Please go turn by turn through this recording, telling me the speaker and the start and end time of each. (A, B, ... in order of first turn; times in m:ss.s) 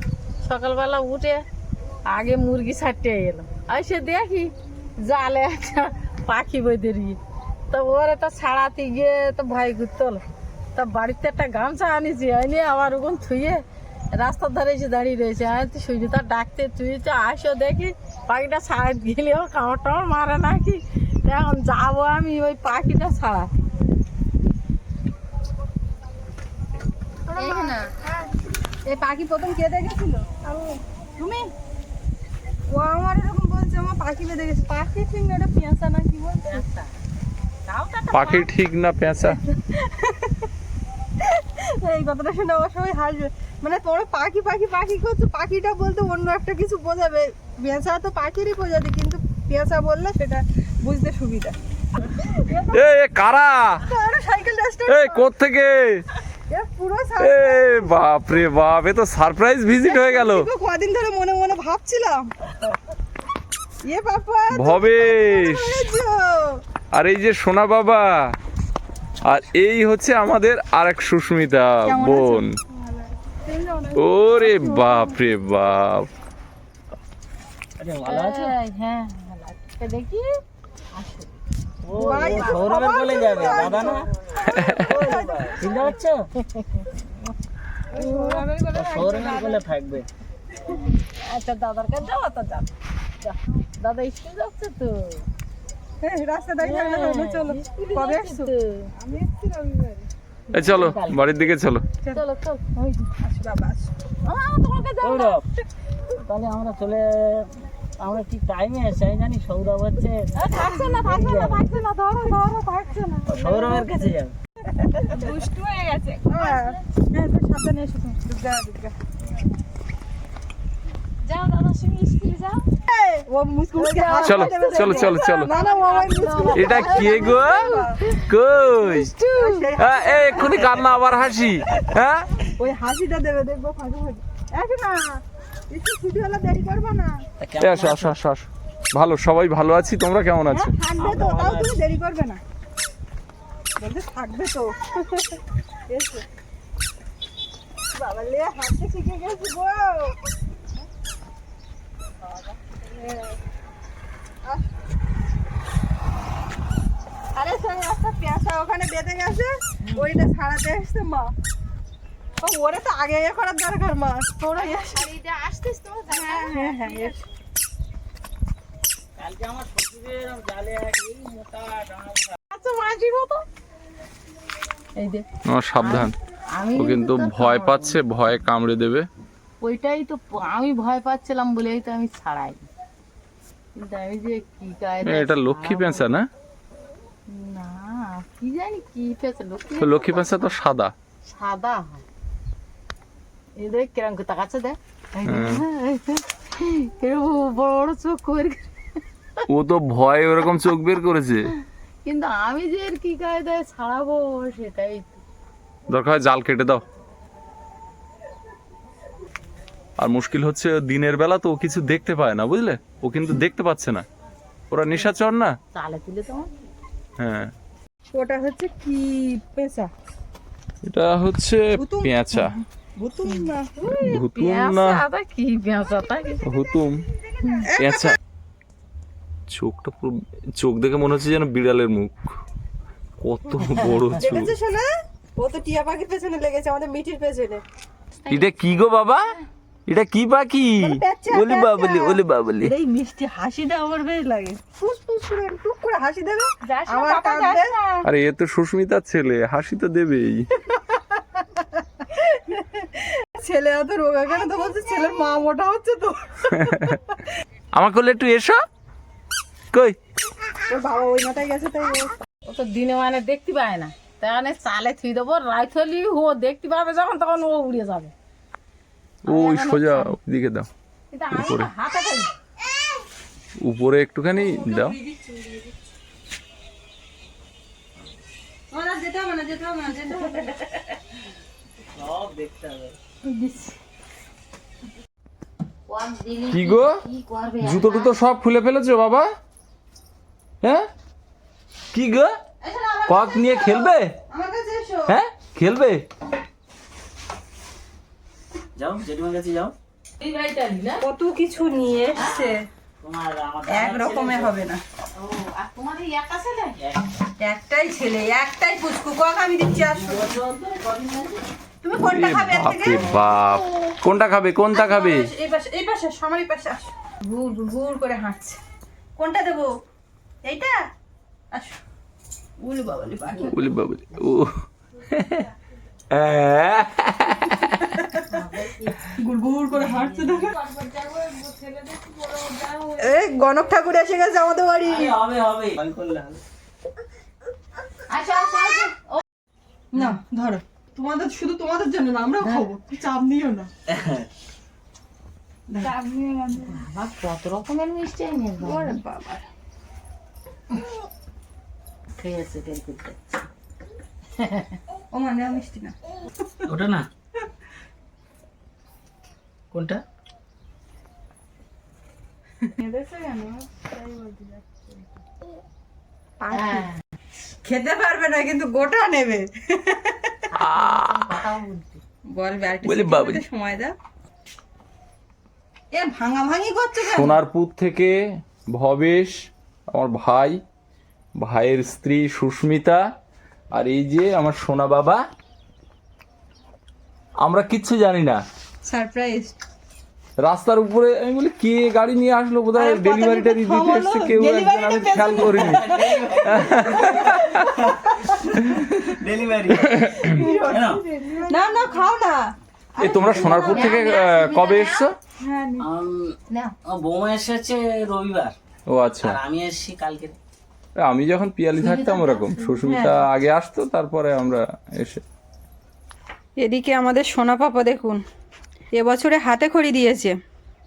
0:00.4-0:01.4 A
0:02.1-0:07.2 A
0:07.7-0:10.2 A
0:10.8-0:23.6 A
0:27.3-0:28.2 B
0:27.4-0:27.8 A
0:28.9-0:31.5 B
0:32.7-0:36.6 B
0:36.4-0:36.9 A
0:37.7-0:38.5 A
0:38.1-0:39.4 C
0:39.2-0:40.5 B
0:41.2-0:51.6 B
0:52.2-0:52.9 B
0:52.7-0:53.8 C
0:53.8-0:55.3 B
0:54.9-0:56.0 C
0:56.5-0:58.0 B
0:57.2-1:00.5 C
0:59.8-1:02.3 B
1:03.8-1:06.6 B
1:04.5-1:05.9 C
1:06.9-1:08.4 C
1:09.2-1:12.6 C
1:11.9-1:15.0 B
1:14.0-1:16.1 C
1:17.8-1:18.6 D
1:18.1-1:20.3 A
1:20.9-1:21.4 A
1:21.8-1:24.1 D
1:22.0-1:26.0 B
1:22.0-1:24.0 A
1:24.4-1:25.0 C
1:24.6-1:26.3 D
1:24.7-1:25.8 A
1:26.4-1:26.9 A
1:27.9-1:29.5 B
1:27.9-1:29.6 A
1:28.7-1:30.1 D
1:31.1-1:32.7 A
1:33.2-1:35.3 A
1:36.0-1:39.8 B
1:36.6-1:38.9 A
1:40.5-1:41.5 A
1:40.5-1:41.8 C
1:42.1-1:42.8 A
1:42.8-1:43.9 B
1:44.2-1:45.4 A
1:45.0-1:45.5 D
1:46.2-1:51.6 D
1:50.4-1:52.0 A
1:50.5-1:50.9 B
1:51.5-1:53.6 B
1:53.3-1:54.4 D
1:53.4-1:53.8 A
1:55.0-1:56.8 A
1:55.0-1:55.4 B
1:56.3-1:59.0 B
2:01.2-2:02.6 A
2:02.9-2:08.0 B
2:03.8-2:09.7 A
2:04.2-2:05.5 C
2:06.5-2:09.1 C
2:09.3-2:10.9 B
2:09.8-2:12.3 C
2:12.6-2:17.2 B
2:17.4-2:18.2 D
2:17.6-2:20.8 C
2:20.5-2:22.4 B
2:20.9-2:21.8 D
2:23.8-2:26.2 B
2:28.0-2:30.2 B
2:32.9-2:33.3 B
2:37.4-2:41.3 B
2:42.4-2:45.1 B
2:44.6-2:47.2 A
2:46.1-2:47.2 B
2:49.2-2:52.4 D
2:52.5-2:53.4 A
2:55.0-2:55.3 A
2:55.5-2:56.1 C
2:55.8-2:58.0 A
2:56.8-2:59.1 C
2:59.6-3:02.7 A
3:03.8-3:06.0 A
3:05.0-3:06.3 C
3:07.3-3:10.5 A
3:09.8-3:10.9 C
3:11.3-3:12.0 A
3:13.6-3:18.7 A
3:15.2-3:15.6 C
3:19.5-3:21.5 C
3:22.0-3:25.2 A
3:25.9-3:26.8 C
3:30.0-3:34.0 C
3:34.7-3:35.5 C
3:35.7-3:36.5 A
3:37.2-3:37.5 C
3:38.1-3:39.9 B
3:40.9-3:42.6 C
3:41.8-3:44.0 B
3:43.3-3:46.4 A
3:43.9-3:45.0 C
3:46.4-3:47.0 C
3:47.4-3:47.7 A
3:47.6-3:48.2 B
3:47.7-3:48.2 C
3:49.5-3:52.3 C
3:53.2-3:54.6 C
3:54.2-3:57.6 B
3:58.3-3:59.3 C
3:59.9-4:02.8 C
4:00.8-4:07.8 B
4:06.6-4:08.1 A
4:08.0-4:10.5 C
4:10.7-4:17.2 B
4:16.5-4:17.0 C
4:17.7-4:18.6 C
4:19.7-4:20.0 C
4:20.6-4:22.2 B
4:22.5-4:28.1 A
4:29.3-4:30.7 C
4:29.3-4:30.2 A
4:31.1-4:32.3 A
4:31.3-4:31.7 C
4:33.6-4:35.0 C
4:34.4-4:35.7 B
4:38.7-4:40.5 B
4:42.0-4:43.0 D
4:43.3-4:43.7 A
4:45.9-4:48.1 A
4:46.5-4:47.0 C
4:47.6-4:49.3 C
4:50.6-4:50.9 C
4:51.9-4:52.4 C
4:52.6-4:55.2 B
4:53.1-4:54.2 C
4:55.1-4:56.0 C
4:58.8-4:59.7 D
5:00.2-5:01.1 A
5:01.0-5:02.6 B
5:02.2-5:02.4 D
5:02.2-5:02.5 A
5:03.0-5:04.6 D
5:03.7-5:04.8 B
5:05.2-5:06.8 A
5:06.8-5:07.1 D
5:07.4-5:10.3 B
5:09.9-5:10.6 D
5:10.5-5:11.4 A
5:11.8-5:13.3 B
5:12.0-5:15.3 C
5:14.7-5:18.6 B
5:19.2-5:19.8 B
5:20.4-5:20.9 B
5:21.5-5:21.8 B
5:22.6-5:23.7 B
5:23.5-5:25.5 C
5:26.1-5:27.9 C
5:28.1-5:33.1 A
5:29.2-5:30.7 B
5:33.0-5:35.2 B
5:34.8-5:36.4 D
5:38.1-5:39.2 A
5:39.9-5:43.7 B
5:42.4-5:42.7 A
5:43.9-5:44.3 D
5:45.7-5:46.8 B
5:45.8-5:49.0 A
5:48.6-5:49.5 B
5:52.2-5:53.2 A
5:54.4-5:54.8 A
5:55.1-5:56.0 B
5:56.6-5:57.1 D
5:59.7-6:00.0 D
6:02.8-6:04.5 A
6:06.4-6:06.9 B
6:06.5-6:07.0 A
6:07.6-6:10.4 B
6:10.5-6:12.0 A
6:10.6-6:11.4 C
6:12.3-6:14.0 B
6:12.8-6:13.4 C
6:15.9-6:17.4 B
6:17.0-6:20.6 C
6:21.4-6:23.0 C
6:23.7-6:25.2 C
6:27.4-6:28.4 C
6:28.8-6:29.6 B
6:30.4-6:37.4 C
6:32.8-6:38.3 B
6:35.4-6:41.0 D
6:39.8-6:40.4 C
6:40.3-6:42.0 A
6:40.3-6:44.0 B
6:43.0-6:45.2 C
6:43.6-6:45.2 A
6:45.4-6:45.9 B
6:45.8-6:48.6 D
6:46.5-6:46.8 A
6:48.9-6:49.4 C
6:49.2-6:50.4 D
6:51.0-6:55.2 C
6:51.8-6:52.9 A
6:52.8-6:53.3 B
6:56.6-6:58.2 B
6:59.0-7:00.4 B